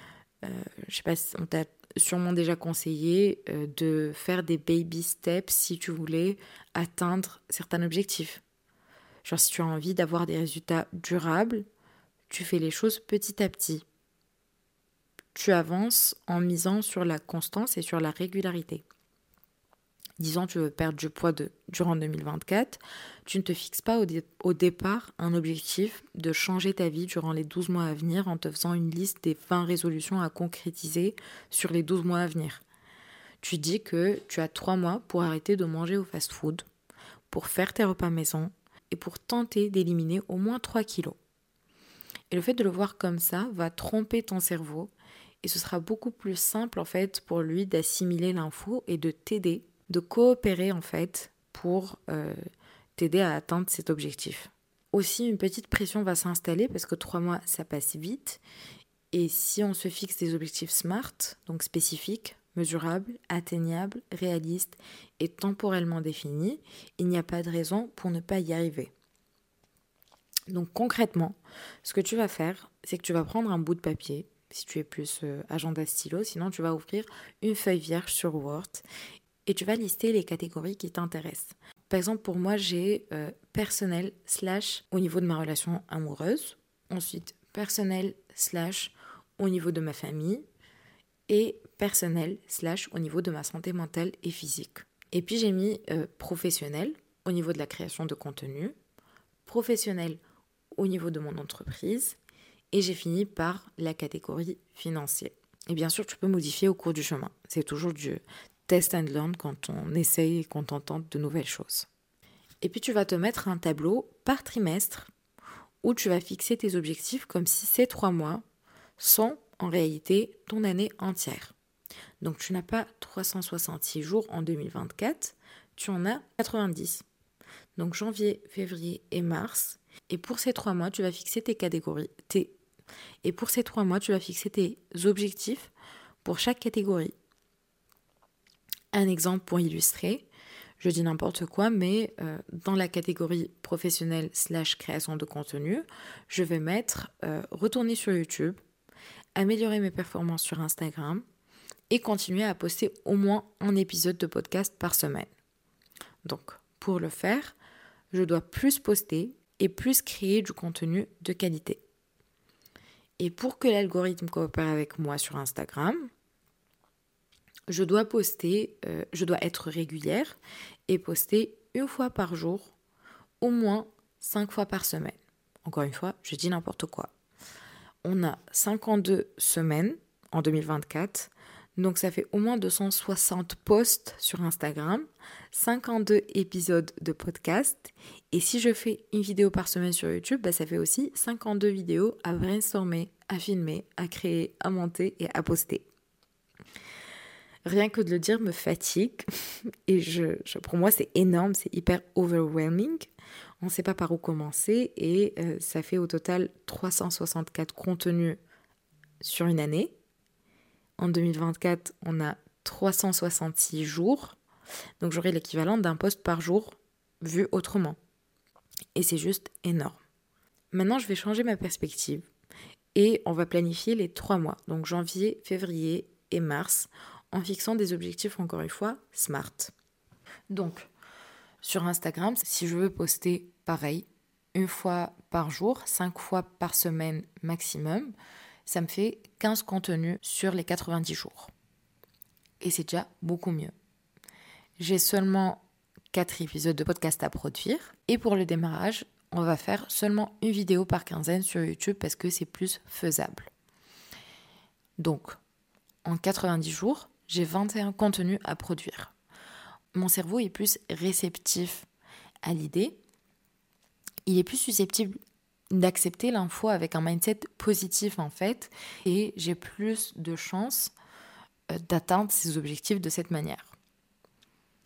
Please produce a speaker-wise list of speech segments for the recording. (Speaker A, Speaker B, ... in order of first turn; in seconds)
Speaker A: 0.4-8.4, 9.2-11.7, 12.3-13.8, 15.3-18.8, 20.2-32.6, 33.4-36.7, 37.3-41.2, 42.3-52.4, 53.0-58.4, 59.1-68.9, 70.5-78.8, 79.5-90.4, 91.3-98.8, 99.5-100.2, 100.8-102.2, 102.7-111.9, 112.6-115.1, 115.8-118.4, 119.0-121.5, 122.2-127.0, 127.8-132.6, 133.2-135.7, 136.2-137.1, 138.9-140.2, 140.8-148.6, 149.3-151.2, 151.9-155.3, 156.2-157.5, 158.1-161.8, 163.2-166.1, 167.7-170.4, 170.9-172.7, 173.4-177.1, 178.0-195.8, 197.7-199.2, 199.8-208.4, 209.2-209.9, 211.0-214.4, 215.0-218.0, 218.9-220.0, 220.7-222.3, 222.9-229.7, 230.5-230.9, 231.6-238.1, 238.7-241.5, 242.6-243.7, 244.8-253.5, 255.0-255.4, 256.0-259.1, 259.9-261.9, 262.4-263.0, 264.2-265.2, 265.7-270.9, 271.7-273.7